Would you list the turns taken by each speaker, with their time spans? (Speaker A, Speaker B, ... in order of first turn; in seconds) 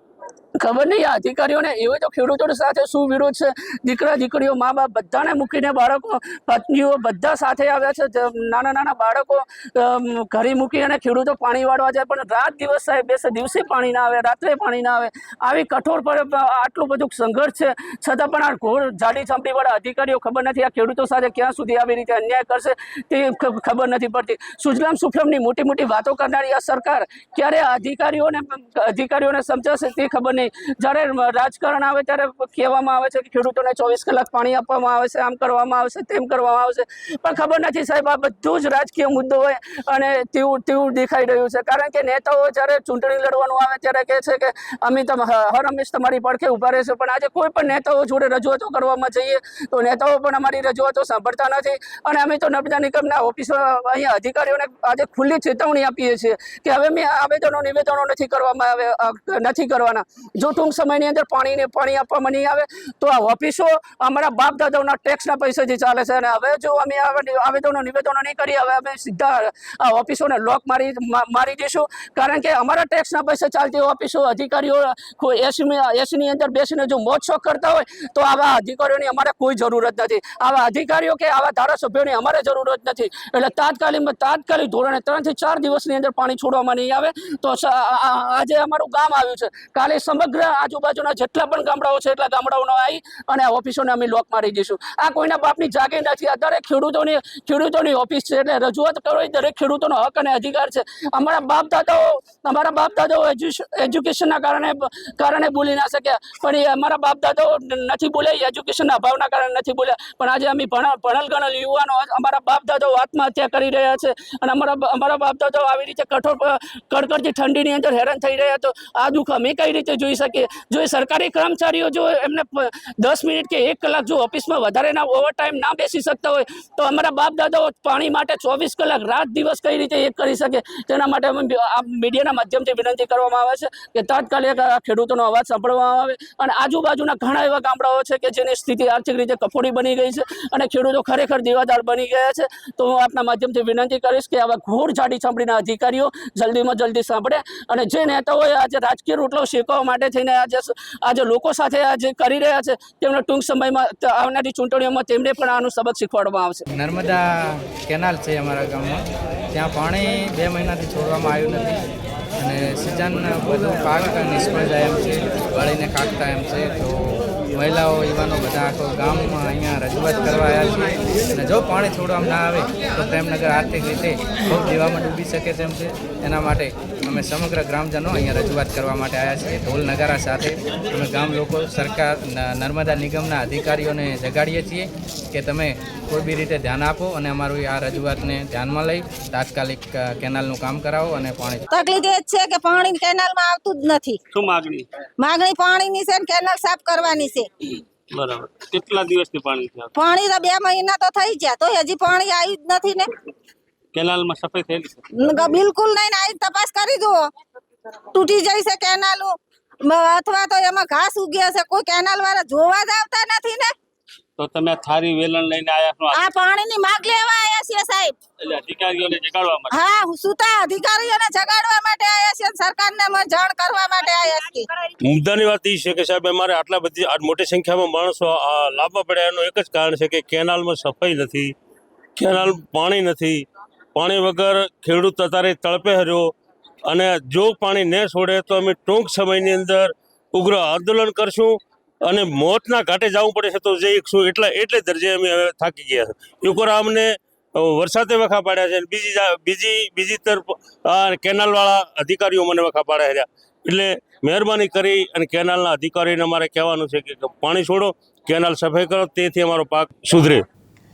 Speaker A: 0.6-156.7
Speaker B: 156.8-161.8, 162.4-191.7
Speaker C: 191.7-194.2, 195.2-197.5, 199.9-203.1, 205.1-207.3, 208.1-213.7, 216.1-218.2, 219.7-224.7
Speaker D: 194.3-194.9, 198.1-199.9, 203.9-205.0, 214.4-216.2, 218.4-219.7
Speaker E: 225.0-231.5, 232.2-233.4, 234.0-236.3, 236.9-260.4